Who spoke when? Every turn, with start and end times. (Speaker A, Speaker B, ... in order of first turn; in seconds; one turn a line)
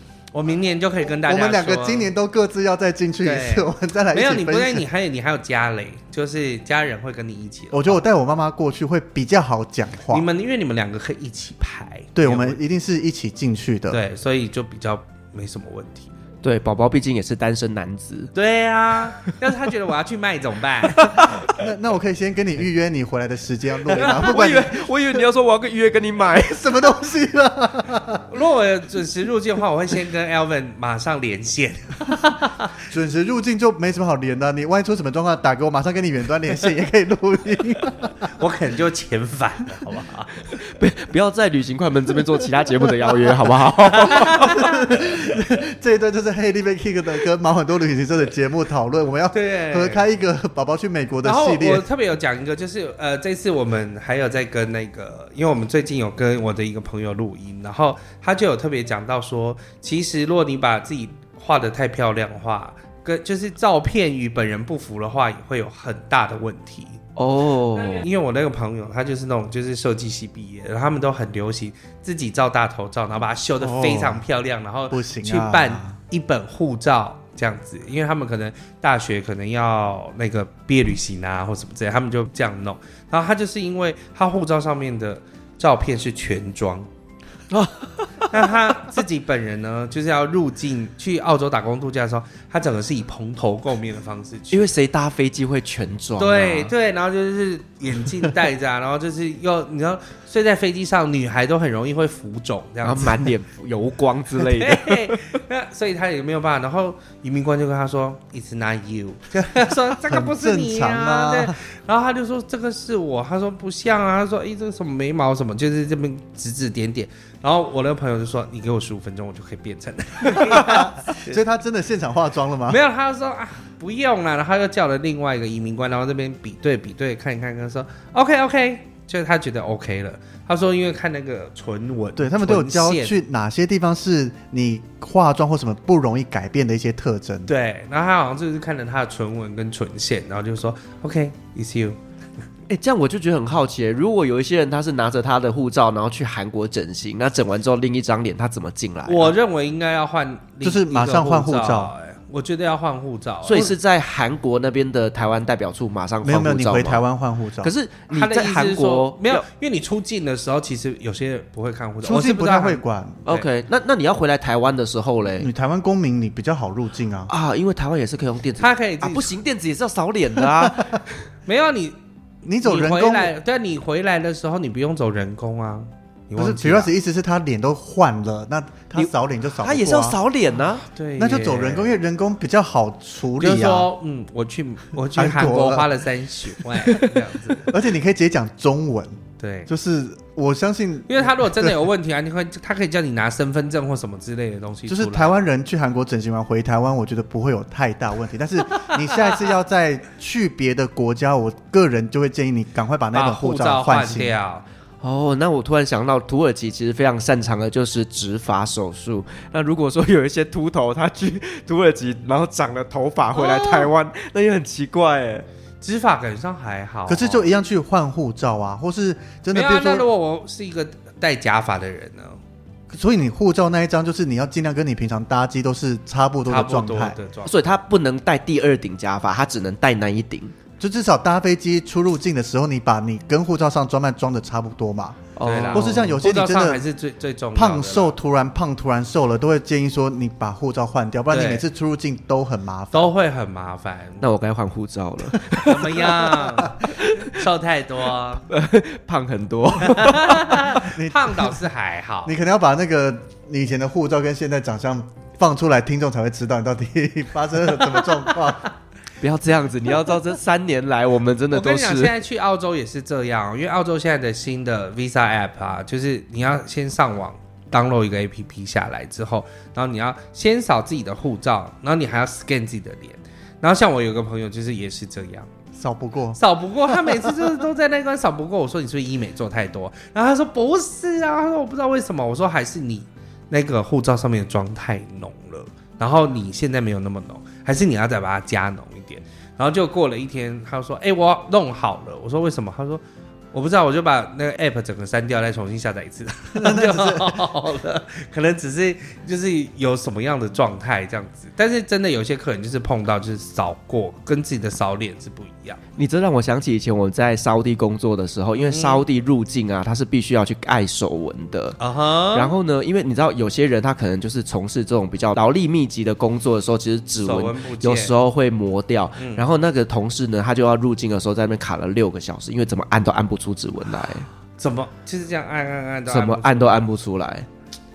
Speaker A: 0.3-2.1
Speaker B: 1.2-4.9
Speaker A: 3.2-8.0
Speaker B: 7.7-10.3
Speaker A: 10.1-12.6
Speaker B: 12.2-14.0
Speaker A: 13.9-16.1
Speaker C: 16.4-18.3
Speaker A: 18.4-21.2
Speaker C: 20.9-21.5
Speaker B: 21.4-25.2
Speaker C: 23.9-26.9
Speaker A: 24.0-24.3
Speaker B: 26.5-28.2
Speaker A: 28.3-32.7
Speaker B: 32.9-38.1
Speaker A: 38.4-40.5
Speaker C: 40.6-44.5
Speaker B: 44.0-51.8
Speaker A: 44.1-44.8
Speaker A: 49.3-50.0
Speaker A: 51.2-67.0
Speaker C: 67.2-68.1
Speaker A: 67.8-86.9
Speaker B: 73.6-74.3
Speaker B: 74.9-76.0
Speaker C: 87.5-88.5
Speaker A: 88.3-94.7
Speaker C: 94.5-96.7
Speaker A: 96.2-103.3
Speaker C: 102.8-105.3
Speaker A: 104.4-121.4
Speaker B: 110.0-111.6
Speaker B: 120.3-122.8
Speaker A: 122.7-133.1
Speaker B: 132.2-137.5
Speaker A: 137.5-142.0
Speaker C: 142.7-149.3
Speaker A: 149.1-153.8
Speaker B: 150.6-151.9
Speaker C: 153.4-157.1
Speaker B: 156.2-157.7
Speaker C: 157.6-159.4
Speaker A: 158.1-163.5
Speaker B: 162.0-163.3
Speaker C: 163.3-165.5
Speaker B: 165.4-167.3
Speaker C: 167.3-171.0
Speaker A: 168.6-169.3
Speaker A: 171.5-172.0
Speaker B: 172.4-173.3
Speaker A: 172.6-176.9
Speaker B: 176.3-180.2
Speaker C: 179.6-180.8
Speaker A: 180.9-181.9
Speaker B: 181.2-183.9
Speaker A: 183.4-187.7
Speaker B: 185.2-185.9
Speaker B: 187.7-191.8
Speaker A: 189.4-189.7
Speaker A: 191.1-195.4
Speaker B: 194.9-204.3
Speaker A: 203.1-204.7
Speaker C: 205.0-215.5
Speaker A: 213.3-213.9
Speaker A: 215.8-217.4
Speaker B: 217.1-220.1
Speaker A: 219.5-222.4
Speaker B: 222.9-227.2
Speaker A: 226.5-227.6
Speaker C: 227.5-230.6
Speaker B: 230.8-236.8
Speaker C: 235.4-236.2
Speaker A: 235.4-238.2
Speaker B: 237.6-243.1
Speaker A: 241.3-241.6
Speaker A: 242.9-244.3
Speaker C: 244.2-247.4
Speaker A: 245.5-248.5
Speaker B: 246.3-246.7
Speaker C: 248.5-250.8
Speaker A: 249.9-252.3
Speaker B: 250.8-251.6
Speaker B: 252.2-258.7
Speaker C: 259.2-262.1
Speaker A: 261.5-275.5
Speaker B: 275.8-277.5
Speaker A: 276.4-293.0
Speaker A: 293.5-305.8
Speaker B: 296.6-297.4
Speaker C: 306.0-311.8
Speaker A: 308.6-309.0
Speaker A: 311.8-312.5
Speaker C: 312.3-324.3
Speaker A: 317.2-318.1
Speaker A: 319.2-319.4
Speaker A: 324.6-326.8
Speaker C: 326.1-327.5